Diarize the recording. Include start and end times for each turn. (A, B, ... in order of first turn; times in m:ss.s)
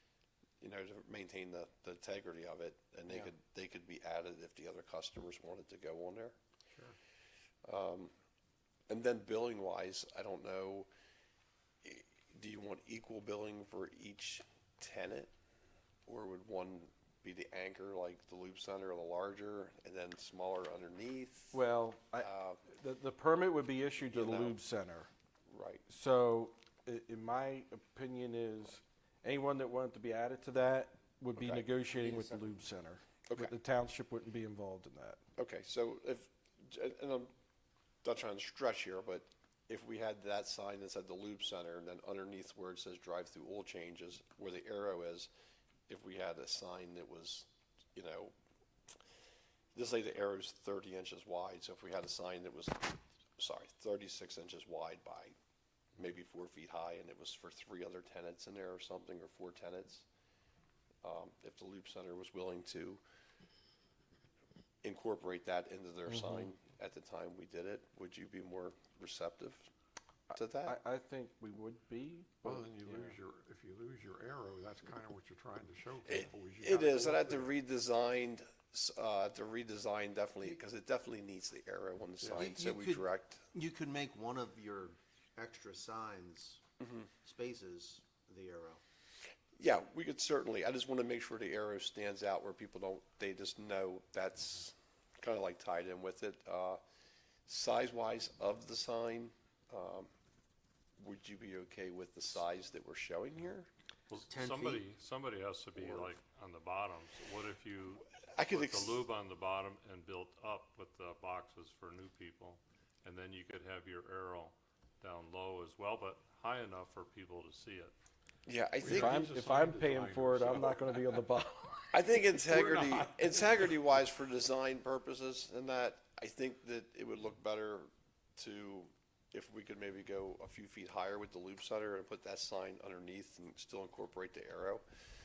0:00.6-0:06.4 A
0:07.6-0:08.1 A
0:08.9-0:10.9 A
0:11.8-0:15.3 A
0:16.1-0:21.6 A
0:21.5-0:25.1 B
0:22.2-0:22.6 A
0:24.1-0:24.6 A
0:25.5-0:25.8 A
0:25.9-0:35.2 B
0:31.4-0:31.6 A
0:31.9-0:32.5 C
0:33.3-0:33.5 A
0:35.4-0:37.3 A
0:38.0-0:45.3 A
0:45.9-0:48.3 A
0:49.7-0:55.3 A
0:56.0-1:00.0 A
1:01.0-1:03.0 A
1:04.8-1:09.6 A
1:10.3-1:10.8 A
1:10.3-1:13.1 B
1:12.4-1:17.5 D
1:16.1-1:23.4 A
1:22.2-1:22.5 D
1:22.4-1:26.6 C
1:27.2-1:28.8 C
1:29.6-1:36.8 A
1:37.5-1:40.1 A
1:41.0-1:43.7 A
1:44.1-1:57.9 E
1:44.3-1:44.9 C
1:45.8-1:46.1 C
1:48.3-1:49.0 A
1:58.5-1:59.2 A
1:58.8-2:01.2 D
1:58.8-2:01.7 B
2:01.9-2:14.8 A
2:02.3-2:03.8 D